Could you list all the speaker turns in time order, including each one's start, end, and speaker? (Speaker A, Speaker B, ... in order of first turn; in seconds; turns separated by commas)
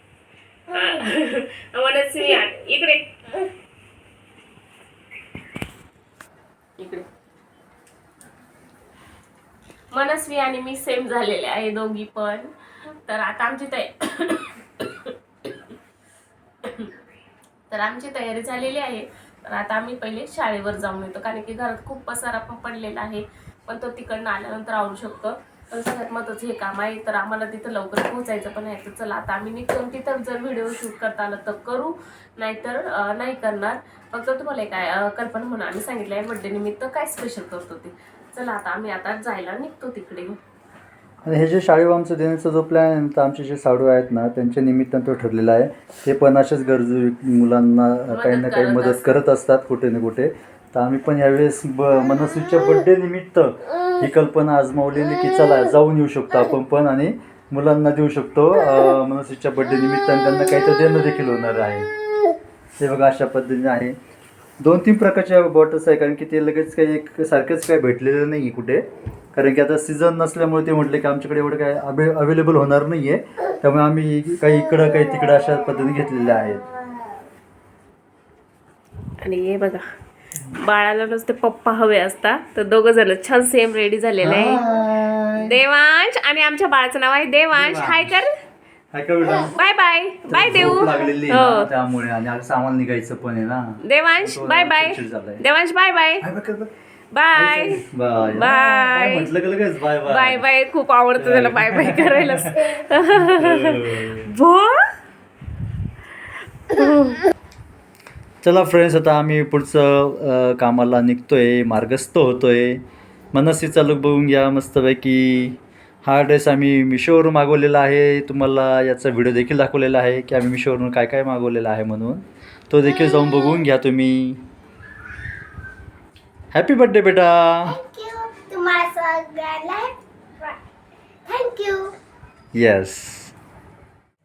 Speaker A: 0.7-3.5, Speaker A: 6.8-7.0, Speaker A: 9.9-15.1, Speaker A: 16.6-16.9, Speaker A: 17.7-40.4, Speaker B: 41.2-61.9, Speaker A: 48.1-49.1, Speaker B: 62.8-64.0, Speaker B: 64.6-76.7, Speaker A: 79.2-79.8, Speaker A: 80.5-84.6, Speaker B: 84.2-85.5, Speaker A: 85.4-88.3, Speaker B: 87.5-88.2, Speaker B: 88.9-89.5, Speaker A: 89.5-91.7, Speaker B: 90.3-95.4, Speaker A: 93.8-96.2, Speaker B: 96.2-96.7, Speaker A: 97.1-99.3, Speaker B: 97.3-100.4, Speaker A: 100.0-104.9, Speaker B: 101.2-104.3, Speaker A: 106.7-107.2, Speaker B: 108.4-112.8, Speaker B: 113.3-124.4, Speaker B: 126.5-127.8, Speaker C: 127.7-130.6, Speaker C: 131.3-131.9, Speaker B: 132.5-133.3